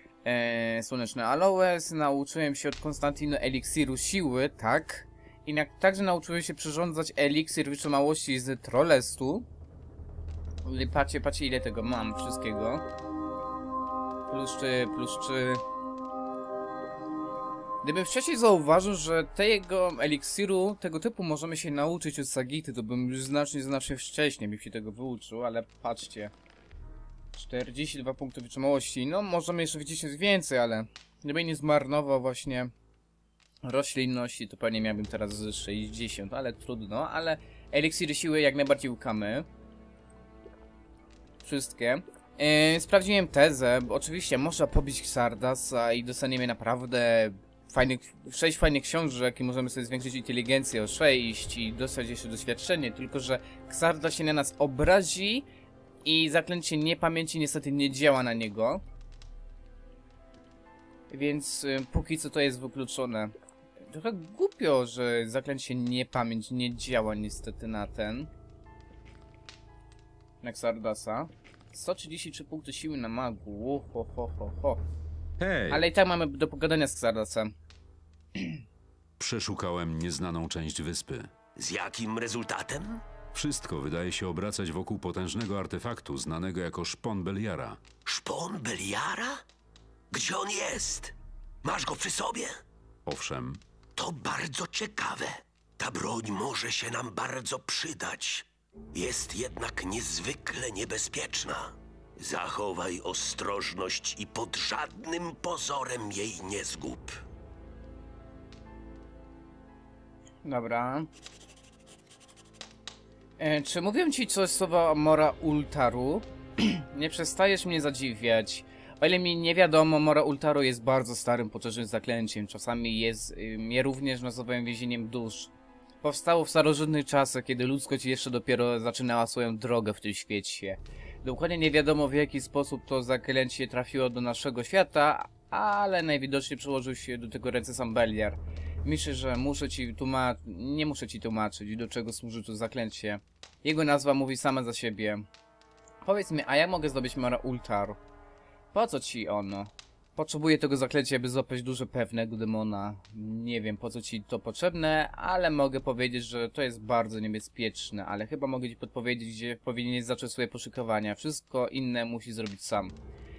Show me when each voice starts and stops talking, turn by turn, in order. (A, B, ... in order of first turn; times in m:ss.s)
0:00.2-0:09.5 A
0:10.6-0:12.8 A
0:14.3-0:15.6 A
0:17.8-0:26.3 A
0:27.3-0:32.7 A
0:33.6-0:39.5 A
0:41.4-0:55.5 A
0:56.0-0:58.8 A
1:01.1-1:03.3 A
1:03.9-1:08.3 A
1:10.4-1:14.8 A
1:15.4-1:15.8 B
1:15.7-1:17.5 A
1:19.2-1:21.3 B
1:21.6-1:23.0 C
1:23.3-1:27.8 B
1:28.1-1:29.4 C
1:30.1-1:32.5 C
1:33.1-1:33.6 B
1:34.0-1:47.2 C
1:50.4-1:51.1 A
1:53.4-2:25.2 A
2:26.0-2:28.0 A
2:28.7-2:42.9 A